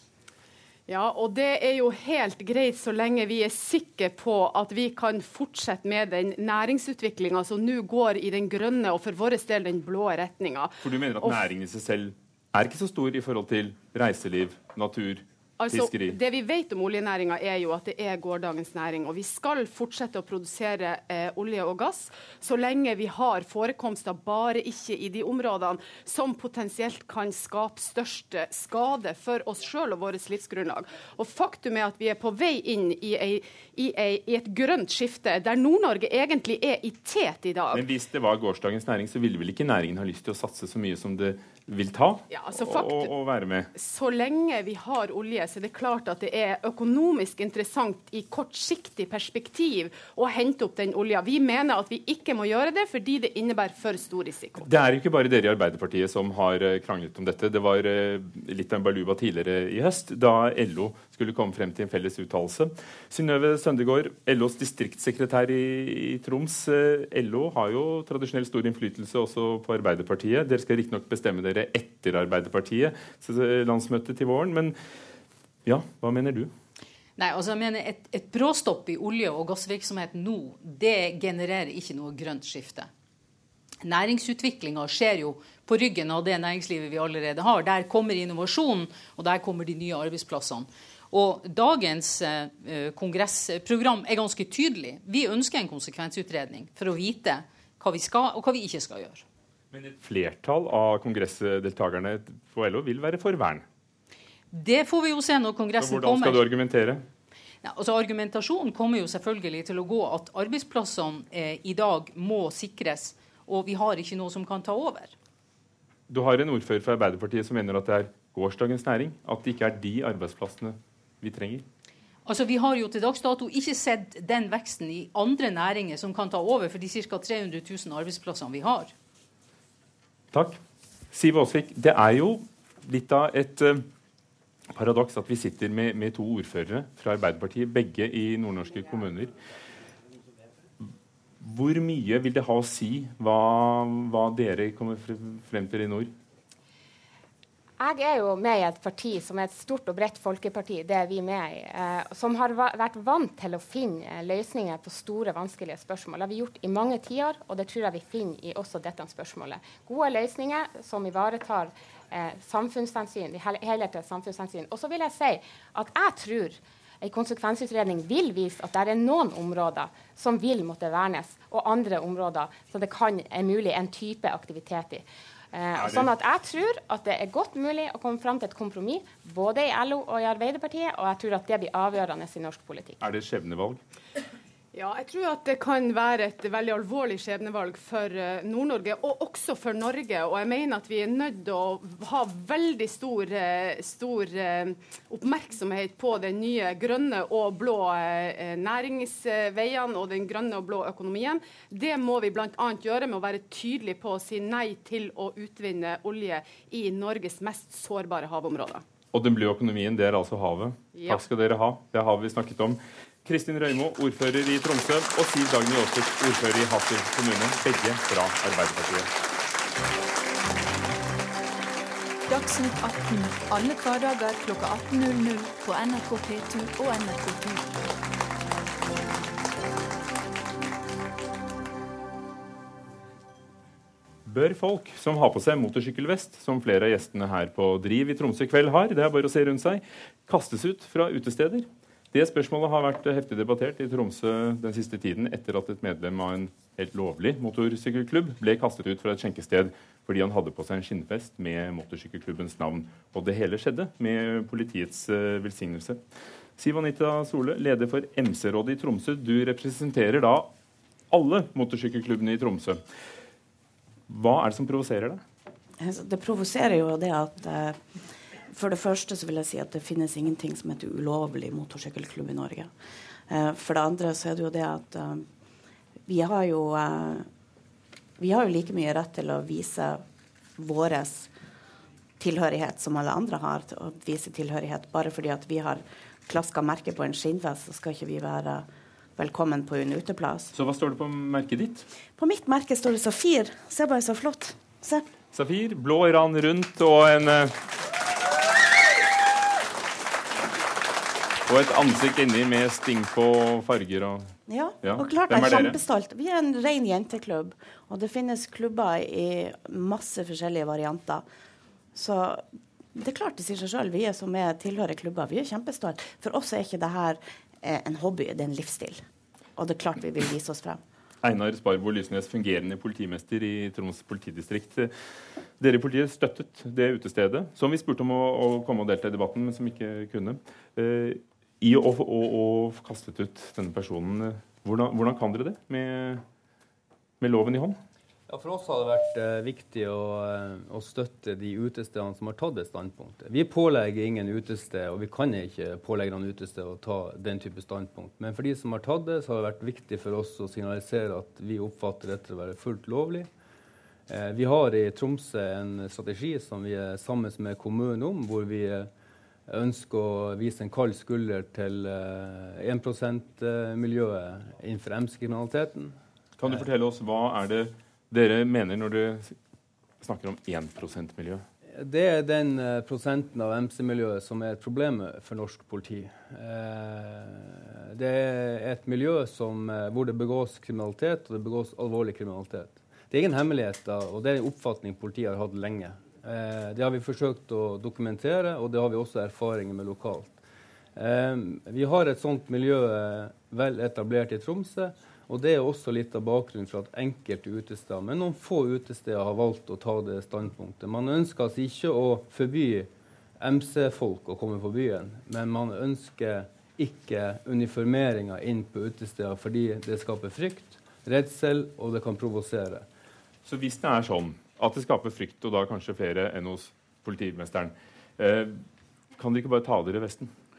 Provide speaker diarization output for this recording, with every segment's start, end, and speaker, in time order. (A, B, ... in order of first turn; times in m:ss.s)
0:00.9-0:11.4 A
0:10.8-0:16.2 B
0:15.6-0:37.8 A
0:37.7-0:43.7 B
0:42.3-0:43.1 A
0:43.8-0:54.7 A
0:54.6-1:14.8 B
1:15.7-1:16.5 B
1:17.2-1:22.9 C
1:23.8-1:39.2 C
1:39.7-1:43.6 B
1:44.5-1:46.5 C
1:45.8-1:47.0 B
1:47.6-1:55.1 C
1:56.1-2:01.6 B
2:02.2-2:08.9 C
2:10.3-2:10.6 B
2:11.1-2:13.8 B
2:14.7-2:19.3 B
2:21.4-2:26.1 B
2:27.8-3:03.0 D
2:55.8-2:56.1 B
3:03.0-3:03.8 B
3:04.7-3:28.8 A
3:29.1-3:39.1 B
3:30.9-3:31.2 A
3:42.3-3:47.8 E
3:54.3-4:16.0 B
4:16.6-4:20.5 B
4:21.1-4:22.8 B
4:24.1-4:25.2 B
4:25.8-4:27.8 F
4:28.5-4:32.7 F
4:33.3-4:35.3 F
4:36.1-4:37.3 F
4:38.2-4:40.0 F
4:40.6-4:41.3 F
4:42.2-4:50.5 F
4:50.5-4:51.9 B
4:52.2-4:55.0 F
4:55.3-4:57.5 B
5:01.5-5:05.8 B
5:04.5-5:11.3 F
5:11.9-5:12.4 F
5:13.0-5:19.0 F
5:19.6-5:20.8 F
5:21.2-5:24.9 B
5:25.6-5:36.2 B
5:37.2-5:37.8 B
5:38.3-5:53.3 G
5:54.1-5:58.9 G
5:59.5-6:06.0 G
6:06.4-6:09.4 B
6:10.0-6:11.4 B
6:11.7-6:30.4 G
6:31.0-6:42.9 G
6:43.4-6:52.9 G
6:53.4-6:58.6 B
6:59.2-7:00.3 B